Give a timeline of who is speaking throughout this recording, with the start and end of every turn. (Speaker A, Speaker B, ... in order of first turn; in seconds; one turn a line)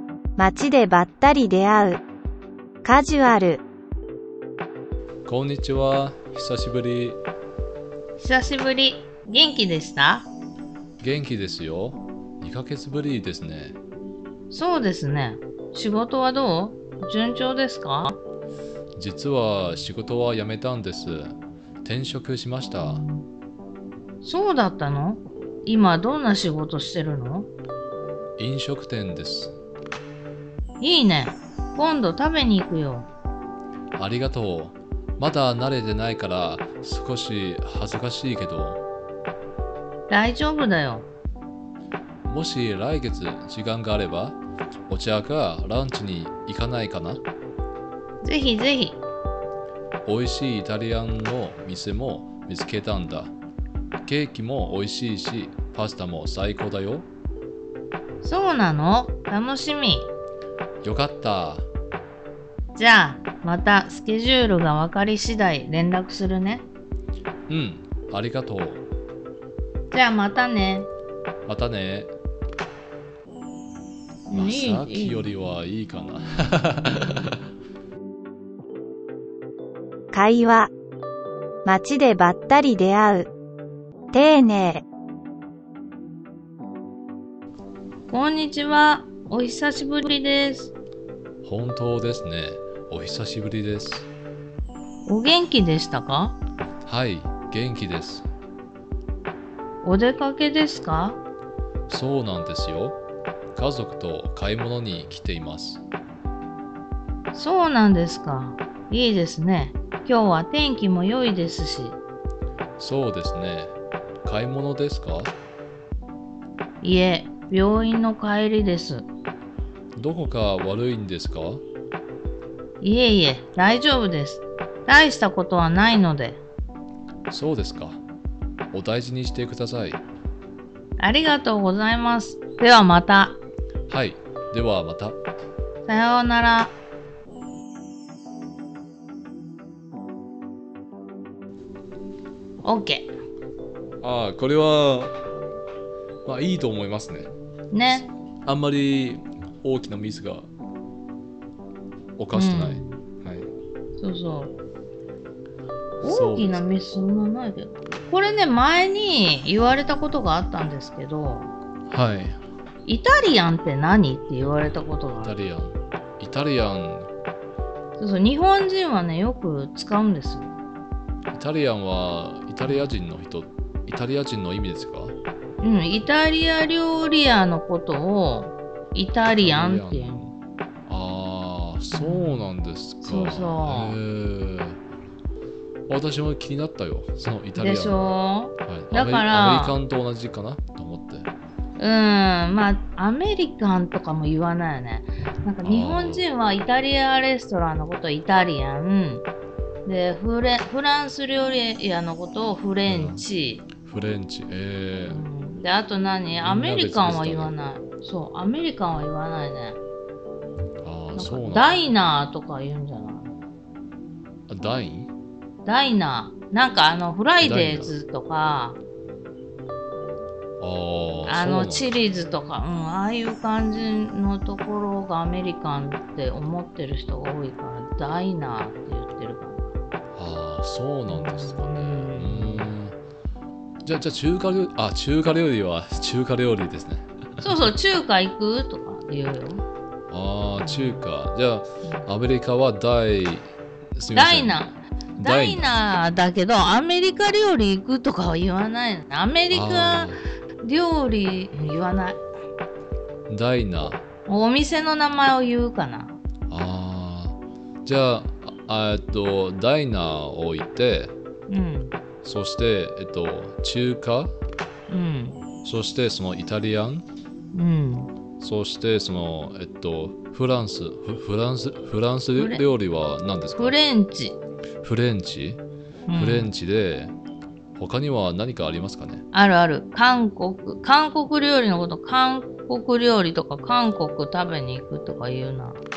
Speaker A: 0.4-2.0
Speaker A: 2.8-3.6
Speaker B: 5.2-7.2
Speaker C: 8.2-10.3
Speaker B: 11.0-13.8
Speaker C: 14.5-18.2
Speaker B: 18.9-23.0
Speaker C: 24.2-27.5
Speaker B: 28.4-29.5
Speaker C: 30.8-33.1
Speaker B: 34.0-38.8
Speaker C: 40.1-41.1
Speaker B: 42.2-47.2
Speaker C: 48.2-49.0
Speaker B: 50.0-53.3
Speaker B: 54.0-57.1
Speaker C: 58.2-60.1
Speaker B: 60.8-61.7
Speaker C: 62.7-66.7
Speaker B: 67.5-68.8
Speaker C: 69.9-70.9
Speaker B: 71.5-72.1
Speaker C: 74.3-75.3
Speaker B: 74.3-77.3
Speaker A: 80.1-80.7
Speaker A: 81.6-83.3
Speaker A: 84.1-84.8
Speaker C: 88.1-90.7
Speaker B: 91.4-94.1
Speaker C: 95.0-96.4
Speaker B: 96.8-98.3
Speaker C: 99.8-101.2
Speaker B: 101.9-103.0
Speaker B: 103.5-105.8
Speaker C: 107.3-112.0
Speaker B: 112.8-115.3
Speaker C: 116.8-119.1
Speaker B: 120.0-121.6
Speaker C: 122.8-126.4
Speaker B: 127.3-128.0
Speaker B: 128.7-130.0
Speaker C: 131.0-133.4
Speaker B: 133.9-135.2
Speaker C: 135.8-136.8
Speaker C: 142.6-143.1
Speaker B: 144.0-145.2
Speaker B: 146.2-147.3
Speaker C: 147.7-148.1
Speaker B: 148.4-150.5
Speaker B: 152.2-153.5
Speaker C: 152.3-153.0
Speaker C: 154.0-154.5
Speaker B: 156.0-156.7
Speaker C: 156.0-161.5
Speaker B: 161.9-162.4
Speaker C: 162.8-165.3
Speaker B: 165.2-167.1
Speaker C: 168.0-170.5
Speaker B: 171.3-175.1
Speaker C: 172.6-172.9
Speaker C: 175.6-180.2
Speaker B: 179.2-180.3
Speaker B: 180.9-184.8
Speaker C: 181.9-182.5
Speaker C: 183.0-184.0
Speaker B: 185.9-191.3
Speaker C: 187.5-189.8
Speaker C: 191.8-199.2
Speaker B: 195.6-196.3
Speaker C: 199.8-203.7
Speaker B: 202.8-203.2
Speaker B: 203.8-205.2
Speaker C: 205.1-209.8
Speaker B: 206.4-207.5
Speaker B: 210.8-211.8
Speaker C: 211.1-213.3
Speaker B: 214.5-215.1
Speaker C: 215.6-218.8
Speaker B: 217.4-217.9
Speaker B: 220.6-221.9
Speaker C: 221.2-229.7
Speaker B: 230.1-232.9
Speaker C: 231.1-232.7
Speaker B: 233.8-237.5
Speaker C: 237.4-239.6
Speaker B: 240.1-245.8
Speaker C: 240.6-241.1
Speaker C: 244.1-252.2
Speaker B: 249.5-250.2
Speaker B: 253.3-254.0
Speaker C: 254.2-256.2
Speaker B: 256.5-261.1
Speaker C: 261.5-261.9
Speaker B: 262.2-264.3
Speaker C: 264.9-265.4
Speaker B: 265.6-267.1
Speaker C: 267.5-268.1
Speaker B: 268.4-273.8
Speaker C: 272.4-272.6
Speaker C: 273.5-274.4
Speaker B: 274.8-275.6
Speaker C: 276.1-276.5
Speaker B: 276.1-277.1
Speaker B: 277.8-279.2
Speaker C: 279.3-285.8